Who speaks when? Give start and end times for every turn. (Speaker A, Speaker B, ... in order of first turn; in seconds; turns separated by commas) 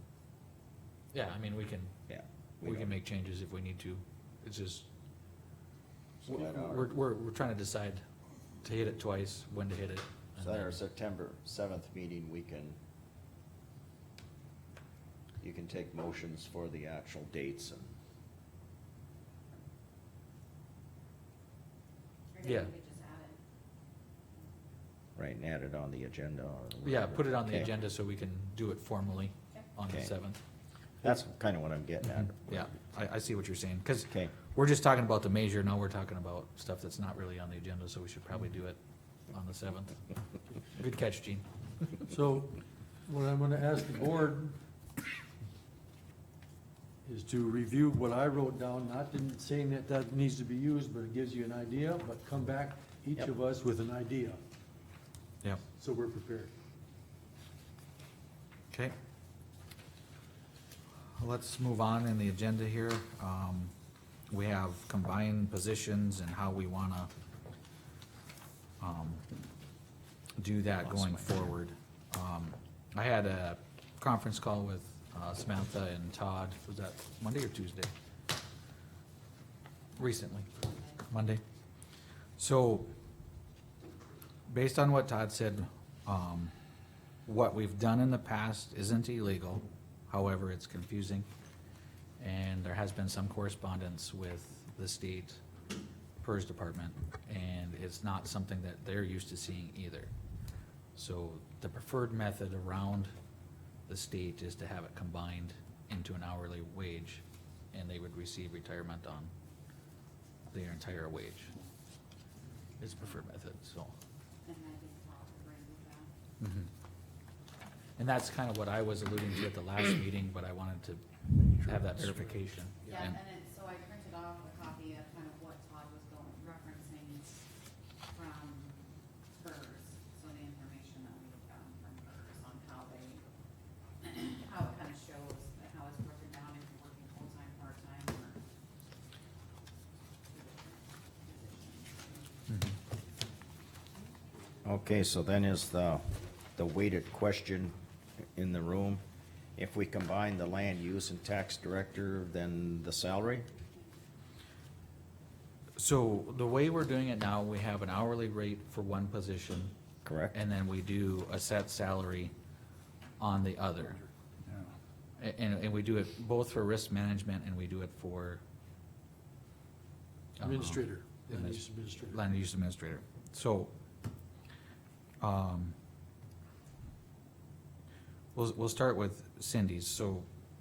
Speaker A: 1.1-1.9, Speaker B: 2.1-3.0, Speaker A: 2.6-4.9, Speaker B: 6.2-6.9, Speaker A: 6.2-8.0, Speaker A: 8.6-10.8, Speaker B: 10.4-12.8, Speaker B: 15.4-17.9, Speaker C: 22.3-23.4, Speaker A: 22.4-22.7, Speaker B: 25.1-27.7, Speaker A: 26.8-30.4, Speaker B: 31.0-32.7, Speaker A: 32.0-38.8, Speaker B: 34.0-34.3, Speaker A: 39.3-40.0, Speaker A: 40.7-41.4, Speaker D: 42.1-44.6, Speaker D: 47.0-54.4, Speaker D: 55.8-56.5, Speaker A: 61.2-63.7, Speaker A: 64.3-67.1, Speaker A: 68.8-69.2, Speaker A: 70.4-77.9, Speaker B: 70.8-71.4, Speaker A: 80.0-81.4, Speaker A: 82.4-82.9, Speaker A: 84.5-86.5, Speaker A: 87.2-91.3, Speaker A: 92.2-95.4, Speaker A: 96.2-100.1, Speaker A: 101.0-103.1, Speaker A: 103.9-107.2, Speaker A: 107.7-109.3, Speaker A: 110.5-111.5, Speaker A: 112.8-113.9, Speaker C: 114.4-116.1, Speaker A: 116.4-116.7, Speaker A: 118.0-121.0, Speaker A: 121.6-123.2, Speaker D: 121.6-122.1, Speaker C: 122.9-127.5, Speaker C: 128.1-128.8, Speaker C: 129.4-133.2, Speaker C: 134.0-138.4, Speaker C: 140.3-142.4, Speaker A: 142.5-142.8, Speaker B: 144.6-147.7, Speaker B: 148.3-149.0, Speaker B: 149.6-153.5, Speaker A: 155.8-159.7, Speaker B: 160.0-160.3, Speaker A: 160.3-162.3, Speaker A: 163.2-164.0, Speaker A: 165.2-168.4, Speaker D: 170.4-172.2, Speaker A: 170.4-173.7, Speaker A: 175.2-175.7, Speaker A: 178.3-180.3